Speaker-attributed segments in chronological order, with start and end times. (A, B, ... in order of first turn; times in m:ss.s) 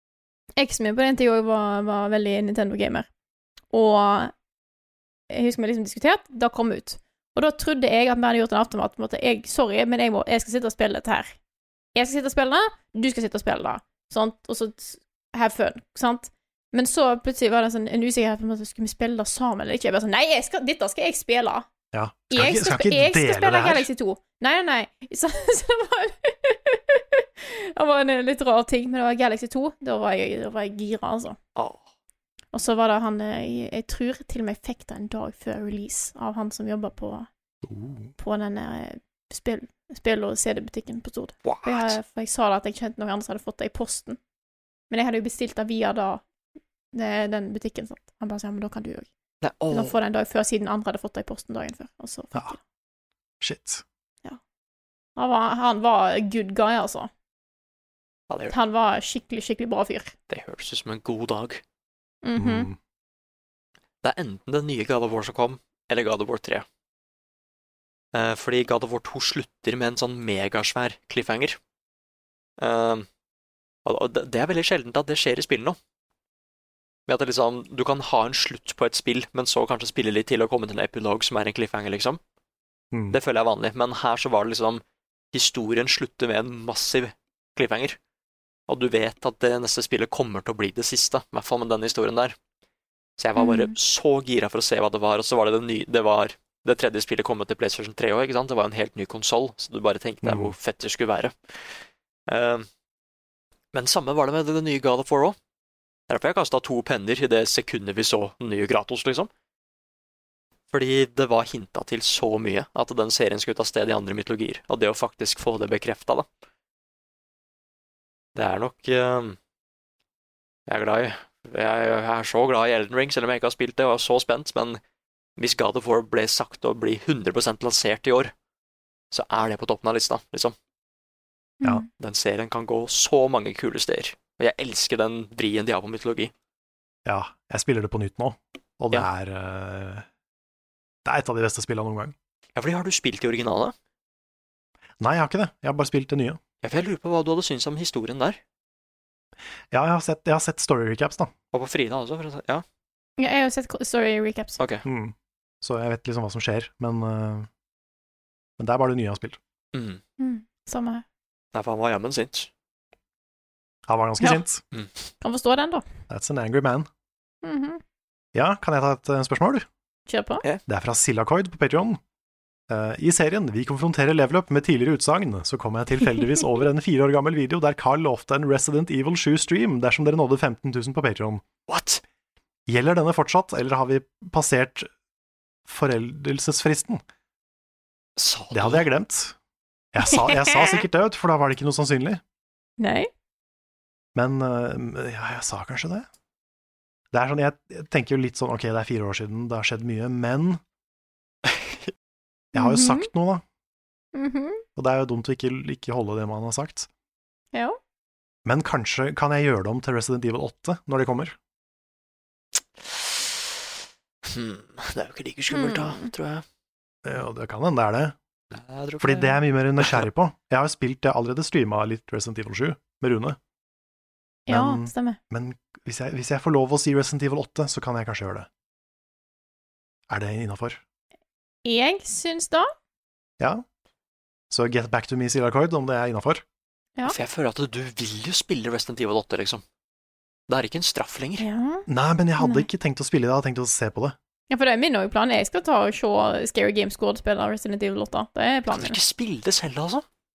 0:00.6-0:03.1 A
0:03.7-0:04.3 A
0:05.3-0:11.3 A
0:11.9-0:21.7 A
0:21.9-0:23.9 B
0:22.3-0:31.4 A
0:31.6-0:31.8 C
0:32.5-0:37.3 A
0:37.6-0:38.1 B
0:38.2-0:44.2 A
0:41.4-0:42.0 C
0:44.9-0:46.2 A
0:46.9-0:49.1 A
0:49.4-0:50.0 C
0:49.7-0:52.6 A
0:53.4-0:53.8 B
0:55.2-0:57.1 A
0:58.3-0:58.5 C
0:58.5-1:00.1 A
1:00.3-1:01.6 C
1:02.2-1:02.7 A
1:02.3-1:02.8 B
1:04.0-1:06.6 C
1:08.1-1:11.6 C
1:12.6-1:13.1 C
1:13.8-1:15.8 C
1:17.1-1:22.2 C
1:22.9-1:23.2 B
1:23.1-1:28.0 C
1:28.7-1:32.4 C
1:33.2-1:41.6 C
1:33.4-1:33.7 A
1:40.2-1:40.5 B
1:42.3-1:42.7 C
1:43.7-1:45.4 C
1:46.1-1:49.3 C
1:50.7-1:56.3 C
1:58.4-1:59.4 C
2:00.7-2:04.8 C
2:05.4-2:08.3 C
2:09.1-2:10.5 C
2:11.6-2:11.8 A
2:12.0-2:16.3 C
2:17.0-2:20.1 B
2:21.0-2:22.1 B
2:22.6-2:23.7 C
2:25.0-2:26.4 B
2:26.6-2:28.4 C
2:29.7-2:31.3 B
2:31.5-2:32.6 C
2:33.2-2:34.6 A
2:34.6-2:34.8 C
2:34.8-2:37.5 B
2:38.6-2:39.4 B
2:39.7-2:40.0 C
2:40.2-2:41.0 A
2:41.5-2:42.5 C
2:43.9-2:44.6 B
2:44.7-2:45.0 C
2:45.2-2:45.8 A
2:46.1-2:46.9 B
2:47.4-2:47.8 A
2:48.3-2:49.7 B
2:50.1-2:50.4 A
2:50.7-2:52.0 B
2:52.7-3:01.4 B
3:01.7-3:02.0 C
3:02.7-3:04.9 B
3:05.6-3:07.0 B
3:08.2-3:08.8 C
3:08.5-3:09.4 B
3:09.9-3:12.2 B
3:10.1-3:10.8 A
3:12.8-3:13.1 A
3:14.1-3:16.1 B
3:17.1-3:20.6 B
3:21.4-3:21.9 C
3:22.5-3:23.4 B
3:22.5-3:23.1 A
3:24.1-3:24.6 A
3:24.8-3:26.9 B
3:27.5-3:27.8 A
3:28.4-3:31.4 B
3:32.8-3:33.3 C
3:34.2-3:36.4 C
3:35.5-3:36.1 A
3:37.0-3:38.2 B
3:38.5-3:40.0 C
3:39.0-3:43.4 B
3:44.5-3:45.2 A
3:44.5-3:48.5 B
3:50.1-3:50.8 B
3:51.6-3:52.7 A
3:54.5-3:56.4 B
3:57.0-3:59.6 C
4:00.5-4:01.4 C
4:01.4-4:01.9 A
4:01.9-4:04.2 B
4:02.4-4:02.7 A
4:04.5-4:09.0 A
4:08.7-4:10.0 C